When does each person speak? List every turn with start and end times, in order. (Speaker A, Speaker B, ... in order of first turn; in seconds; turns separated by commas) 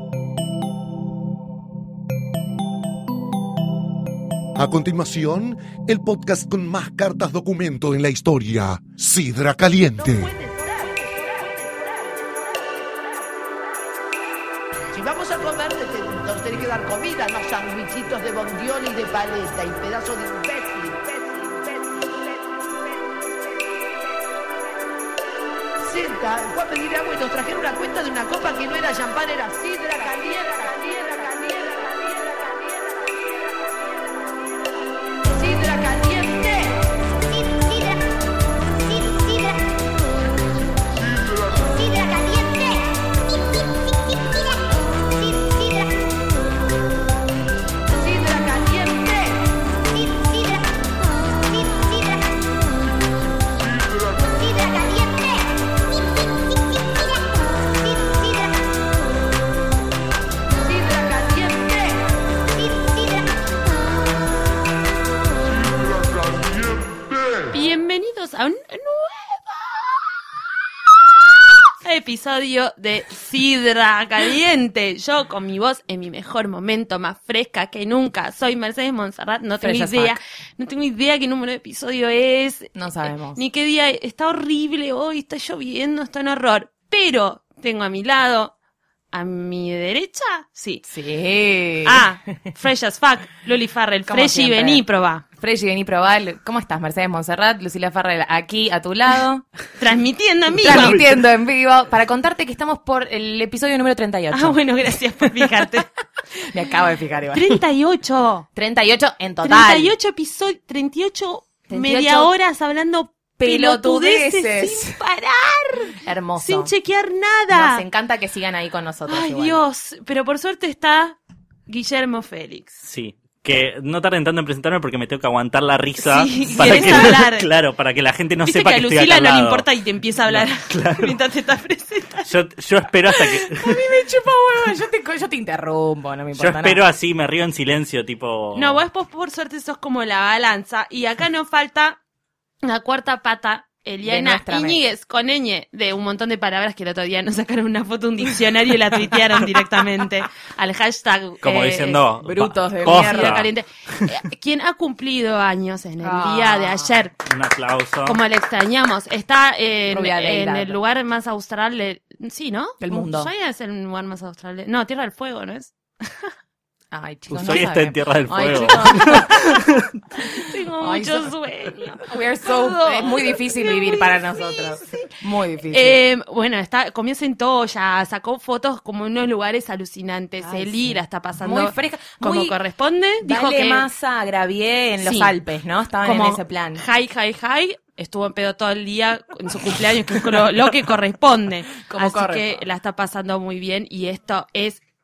Speaker A: 4.5-10.3, Speaker B: 10.0-12.3, Speaker B: 14.9-23.1, Speaker B: 25.8-34.3, Speaker B: 35.2-36.9, Speaker B: 41.5-42.3, Speaker B: 47.9-49.5, Speaker B: 60.6-62.1, Speaker C: 67.4-70.2, Speaker C: 71.8-82.7, Speaker D: 79.6-80.2, Speaker D: 82.7-83.4, Speaker C: 83.3-88.5, Speaker C: 89.1-90.8, Speaker D: 90.8-92.0, Speaker C: 91.8-95.2, Speaker D: 94.1-94.8, Speaker D: 95.4-99.5, Speaker C: 99.8-101.0, Speaker D: 100.6-104.6, Speaker E: 100.6-101.1, Speaker C: 104.3-105.9, Speaker D: 105.2-105.8, Speaker D: 106.3-107.6, Speaker C: 107.3-108.5, Speaker D: 108.5-109.9, Speaker C: 109.4-117.8, Speaker D: 111.7-112.3, Speaker D: 113.4-115.0, Speaker D: 116.0-116.7, Speaker D: 117.5-119.6, Speaker C: 119.1-122.8, Speaker E: 122.8-129.7, Speaker C: 126.0-127.5, Speaker D: 126.5-127.1, Speaker C: 128.4-132.3, Speaker E: 130.3-131.2, Speaker E: 132.3-133.8, Speaker D: 133.4-136.8, Speaker E: 136.3-138.8, Speaker C: 138.5-142.0, Speaker C: 142.6-152.0, Speaker D: 144.0-144.8, Speaker E: 151.4-154.1, Speaker D: 152.2-153.4, Speaker C: 152.8-157.2, Speaker D: 156.0-156.9, Speaker E: 157.2-158.2, Speaker C: 158.0-166.3, Speaker D: 159.9-160.8, Speaker D: 162.8-163.3, Speaker D: 166.9-169.8, Speaker E: 167.3-169.9, Speaker C: 168.7-169.4, Speaker C: 170.2-175.1, Speaker D: 170.8-171.3, Speaker D: 172.0-176.0, Speaker C: 175.7-183.9, Speaker D: 180.4-182.5, Speaker D: 183.2-186.8, Speaker C: 185.0-185.3, Speaker C: 186.0-194.8, Speaker D: 191.9-192.6